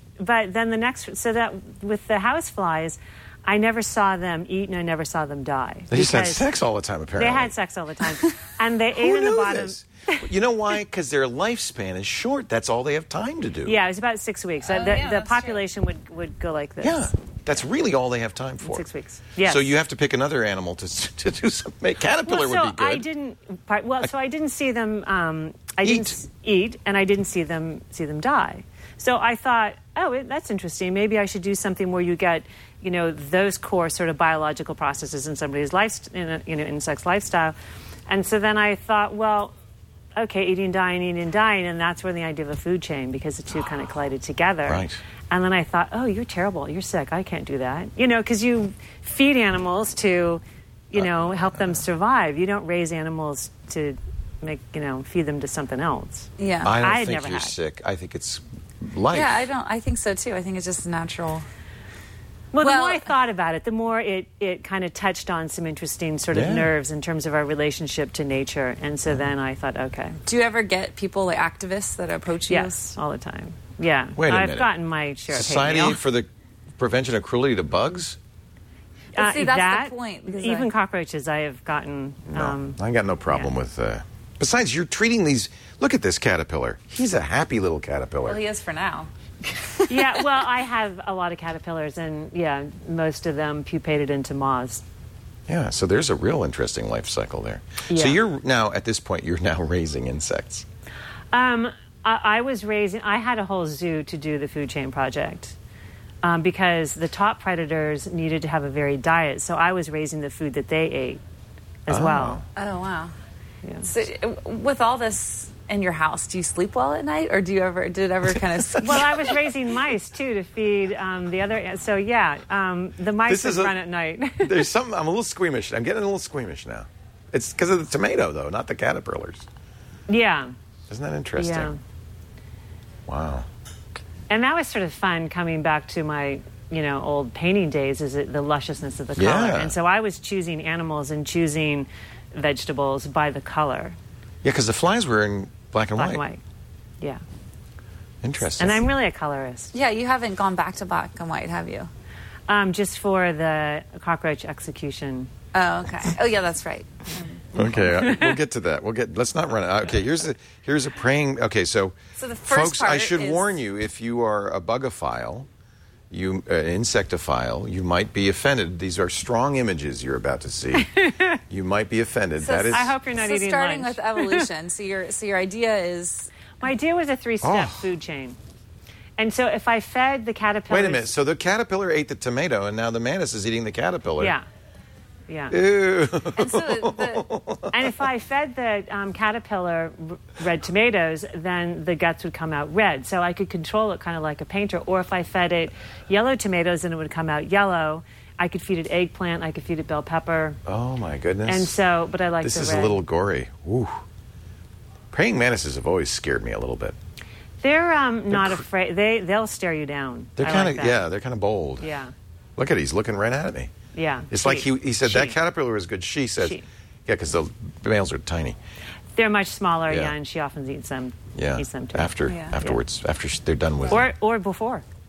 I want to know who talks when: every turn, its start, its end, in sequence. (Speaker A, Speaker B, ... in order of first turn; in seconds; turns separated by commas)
Speaker A: 0.2-6.5, Speaker B: 5.9-7.5, Speaker A: 7.2-10.3, Speaker B: 8.9-13.8, Speaker A: 13.7-17.1, Speaker C: 14.6-15.6, Speaker B: 16.8-18.9, Speaker A: 18.6-19.7, Speaker B: 19.4-23.1, Speaker A: 22.2-37.5, Speaker B: 25.8-26.2, Speaker A: 38.1-39.5, Speaker A: 40.2-57.5, Speaker B: 44.7-45.0, Speaker B: 51.0-51.8, Speaker C: 56.4-56.8, Speaker B: 56.6-59.5, Speaker C: 59.1-61.5, Speaker A: 62.5-70.2, Speaker C: 62.6-63.1, Speaker B: 66.3-66.7, Speaker C: 70.3-72.9, Speaker A: 72.5-76.0, Speaker B: 74.2-74.8, Speaker B: 75.3-78.2, Speaker C: 79.2-80.7, Speaker A: 79.2-82.8, Speaker B: 82.3-88.4, Speaker C: 88.3-90.2, Speaker A: 89.9-94.8, Speaker B: 95.5-100.7, Speaker A: 97.9-98.2, Speaker A: 101.3-105.6, Speaker A: 106.2-111.2, Speaker A: 111.9-112.4, Speaker B: 111.9-112.4, Speaker C: 112.6-113.1, Speaker C: 113.8-119.4, Speaker A: 118.8-124.7, Speaker B: 123.3-123.8, Speaker B: 124.4-129.5, Speaker A: 130.1-130.5, Speaker B: 130.9-131.7, Speaker A: 131.4-131.8, Speaker B: 133.1-133.5, Speaker A: 134.3-144.0, Speaker B: 139.2-139.8, Speaker B: 144.4-146.2, Speaker A: 146.0-146.4, Speaker B: 148.2-148.8, Speaker A: 148.6-149.7, Speaker C: 149.7-151.9, Speaker A: 152.5-155.3, Speaker C: 155.5-157.4, Speaker B: 157.5-165.5, Speaker A: 157.6-158.4, Speaker C: 162.2-163.6, Speaker B: 166.1-170.9, Speaker A: 170.8-171.4, Speaker B: 171.5-172.9, Speaker C: 172.4-176.3, Speaker A: 172.7-174.5, Speaker A: 176.6-178.4, Speaker B: 177.4-177.9, Speaker A: 179.2-181.1, Speaker B: 180.7-184.3, Speaker A: 184.2-184.4, Speaker A: 185.3-185.6, Speaker B: 185.5-187.9, Speaker C: 186.3-187.3, Speaker A: 187.7-200.6, Speaker B: 200.7-201.7, Speaker A: 201.5-203.0, Speaker B: 202.4-204.0, Speaker B: 205.1-207.0, Speaker A: 207.6-211.0, Speaker B: 208.3-208.6, Speaker B: 210.4-211.9, Speaker A: 211.8-212.1, Speaker B: 212.6-213.7, Speaker A: 213.9-215.4, Speaker B: 214.3-218.6, Speaker A: 216.4-216.7, Speaker A: 219.2-222.8, Speaker B: 219.9-220.1, Speaker B: 221.3-224.1, Speaker C: 222.3-222.5, Speaker A: 223.9-224.8